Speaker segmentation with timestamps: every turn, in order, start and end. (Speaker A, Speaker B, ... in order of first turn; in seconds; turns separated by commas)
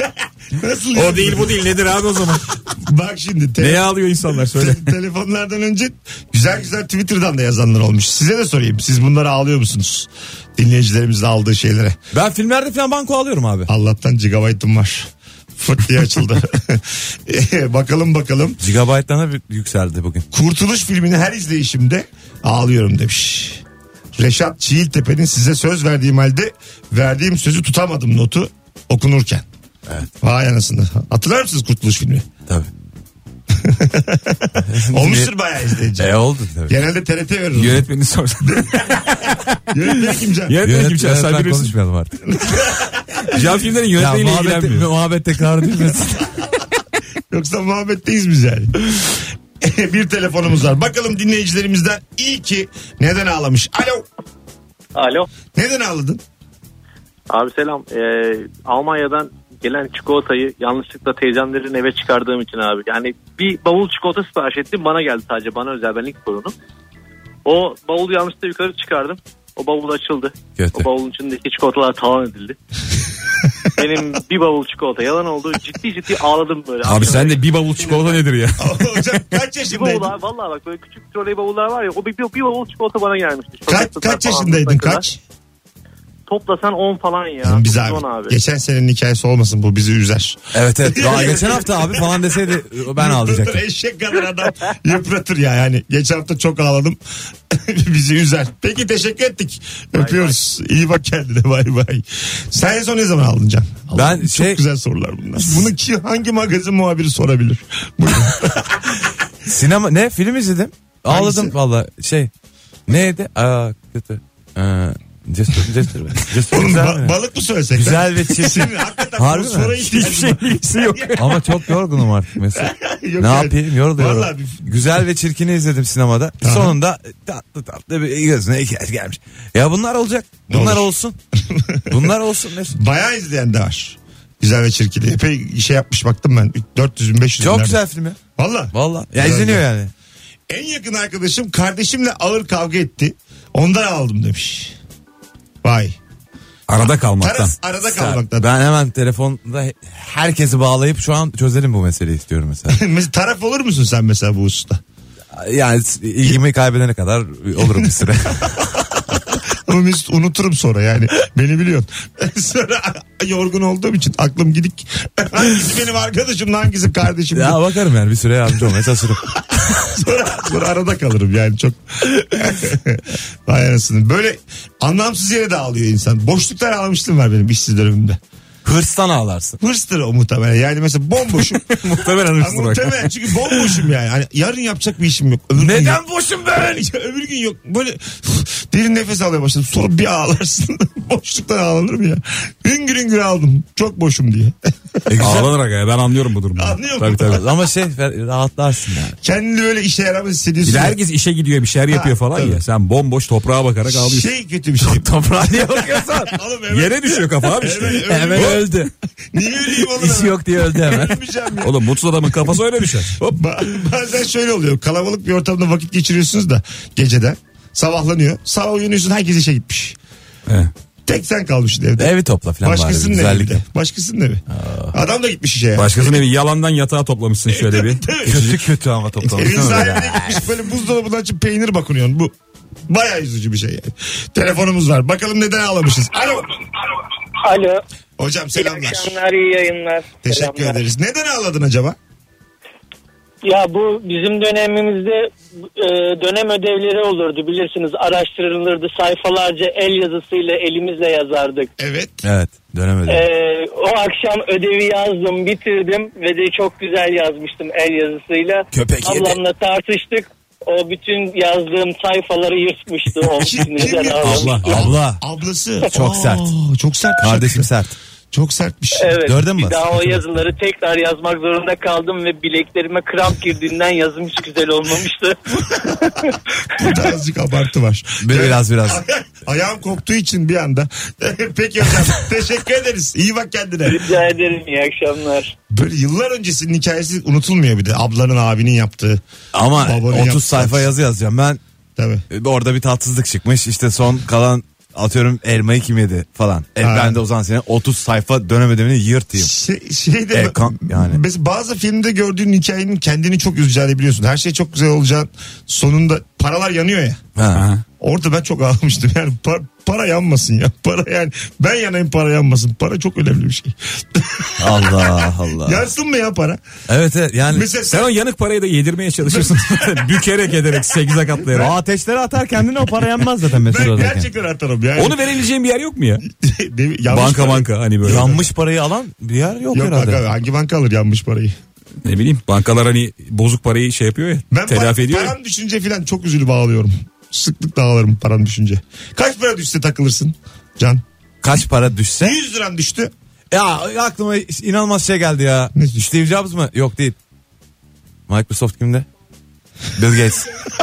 Speaker A: 0.5-1.7, Speaker B: 0.9-2.5, Speaker A: 2.7-3.9, Speaker B: 3.6-4.9, Speaker A: 4.4-12.0, Speaker C: 12.1-13.7, Speaker A: 13.7-18.6, Speaker C: 18.6-20.3, Speaker A: 20.3-23.6, Speaker A: 24.2-29.5, Speaker A: 30.2-32.3, Speaker A: 33.5-37.9, Speaker C: 34.6-35.3, Speaker C: 36.0-36.8, Speaker B: 37.5-41.7, Speaker A: 38.4-38.8, Speaker A: 39.7-40.6, Speaker C: 40.6-42.2, Speaker A: 42.3-43.5, Speaker B: 43.3-44.9, Speaker C: 44.0-46.5, Speaker A: 47.3-54.1, Speaker D: 55.0-55.3, Speaker A: 55.5-56.2, Speaker D: 57.3-66.5, Speaker D: 67.5-72.6, Speaker C: 70.6-70.9, Speaker D: 73.8-78.2, Speaker B: 76.8-78.8, Speaker A: 78.6-80.2, Speaker D: 79.7-85.0, Speaker A: 83.7-85.2, Speaker D: 86.3-88.4, Speaker A: 87.4-92.3, Speaker C: 90.5-93.6, Speaker A: 93.0-97.0, Speaker A: 97.5-109.1, Speaker D: 100.0-100.3, Speaker C: 103.9-104.6, Speaker C: 105.4-105.7, Speaker C: 109.5-112.3, Speaker A: 111.1-111.5, Speaker C: 112.9-117.2, Speaker A: 116.5-121.5, Speaker C: 117.7-119.9, Speaker B: 119.9-121.5, Speaker C: 121.1-131.2, Speaker A: 122.5-124.7, Speaker A: 126.4-126.8, Speaker A: 130.5-130.9, Speaker A: 131.5-132.1, Speaker C: 131.9-132.8, Speaker A: 132.7-137.8, Speaker C: 137.4-138.2, Speaker A: 138.4-139.7, Speaker C: 138.7-139.9, Speaker A: 140.5-144.8, Speaker A: 145.6-146.0, Speaker B: 146.7-147.6, Speaker A: 147.2-148.5, Speaker C: 147.8-152.8, Speaker A: 152.7-154.8, Speaker C: 155.3-158.6, Speaker A: 159.1-167.6, Speaker C: 167.3-169.3, Speaker A: 169.4-178.2, Speaker C: 178.7-179.6, Speaker A: 179.6-181.8, Speaker B: 181.6-183.1, Speaker A: 182.3-186.0, Speaker C: 185.6-186.7, Speaker A: 186.6-195.4, Speaker C: 195.1-195.5, Speaker B: 195.2-197.4, Speaker A: 196.6-197.4, Speaker C: 197.2-199.2, Speaker A: 199.2-201.0, Speaker B: 200.6-204.3, Speaker A: 201.9-202.6, Speaker A: 203.9-205.1, Speaker C: 204.8-206.4, Speaker A: 206.2-211.8, Speaker B: 206.7-208.7, Speaker C: 207.8-208.9, Speaker C: 209.7-211.2, Speaker B: 211.6-213.3, Speaker A: 213.2-220.0, Speaker A: 221.1-226.2, Speaker C: 222.0-223.6, Speaker C: 224.5-225.0, Speaker B: 225.8-228.5, Speaker A: 227.5-228.7, Speaker C: 228.2-230.6, Speaker A: 229.2-232.3, Speaker A: 232.9-236.5, Speaker E: 237.3-237.8, Speaker A: 238.2-239.2, Speaker E: 238.6-240.8, Speaker A: 240.2-242.0, Speaker E: 243.4-251.7, Speaker A: 251.8-252.2, Speaker C: 252.2-253.3, Speaker E: 253.1-264.6, Speaker C: 258.7-259.4, Speaker A: 263.4-267.7, Speaker C: 264.2-265.2, Speaker B: 264.2-265.0, Speaker C: 265.9-266.5, Speaker C: 267.2-268.0, Speaker A: 268.3-269.2, Speaker E: 269.0-276.1, Speaker C: 269.2-270.4, Speaker A: 275.7-284.1, Speaker C: 278.2-279.0, Speaker E: 283.9-285.5, Speaker A: 285.7-289.2, Speaker C: 289.5-291.6, Speaker A: 289.8-290.9, Speaker A: 292.0-292.2, Speaker C: 292.3-299.5, Speaker A: 296.8-297.2, Speaker A: 299.4-307.2, Speaker C: 300.3-301.2, Speaker C: 307.4-307.7, Speaker B: 307.5-307.8, Speaker A: 308.0-316.6, Speaker C: 314.6-315.9, Speaker C: 316.9-317.7, Speaker A: 317.5-318.1, Speaker B: 317.9-321.8, Speaker A: 319.3-319.9, Speaker C: 321.5-324.3, Speaker A: 323.5-325.2, Speaker B: 325.0-326.2, Speaker A: 326.3-327.7, Speaker B: 327.1-328.5, Speaker C: 328.0-330.3, Speaker A: 329.7-331.6, Speaker B: 332.0-335.4, Speaker A: 334.5-341.0, Speaker C: 341.4-342.4, Speaker A: 342.2-343.1, Speaker C: 343.5-347.2, Speaker A: 345.8-346.1, Speaker C: 348.3-349.1, Speaker C: 350.0-350.5